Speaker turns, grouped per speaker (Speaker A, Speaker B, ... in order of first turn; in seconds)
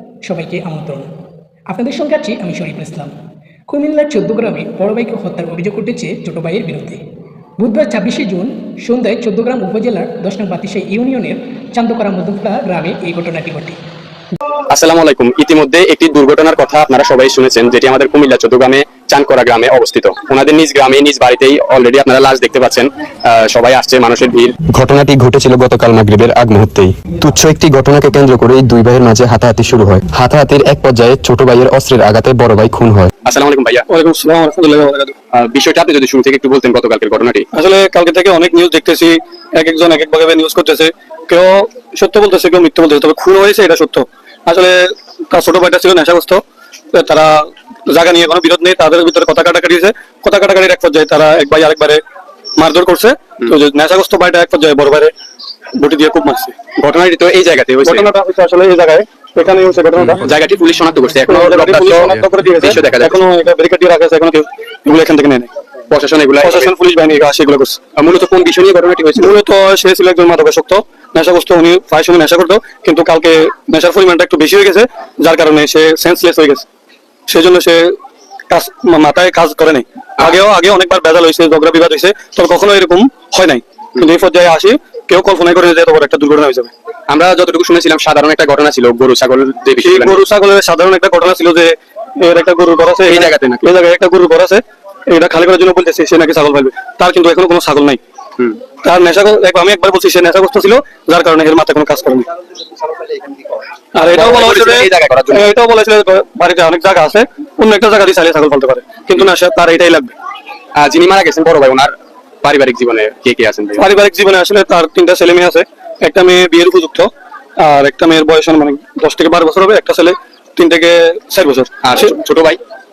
Speaker A: 0.2-1.1, 1.7-3.1, 3.7-7.0, 7.6-13.8
Speaker B: 14.7-24.6, 33.2-33.9, 35.3-37.5, 56.8-58.1, 60.1-63.1, 65.9-66.7, 68.0-69.4, 87.1-90.2, 93.1-93.7, 104.1-105.5, 110.8-113.9, 121.8-122.6
Speaker C: 24.6-33.1
Speaker D: 33.9-35.1, 37.5-52.0, 52.6-55.1, 55.8-56.6, 57.9-60.3, 61.3-65.5, 66.4-67.8, 69.2-76.7, 77.3-78.0, 78.5-86.7, 89.8-98.0, 98.8-102.3, 103.9-110.2, 113.8-121.8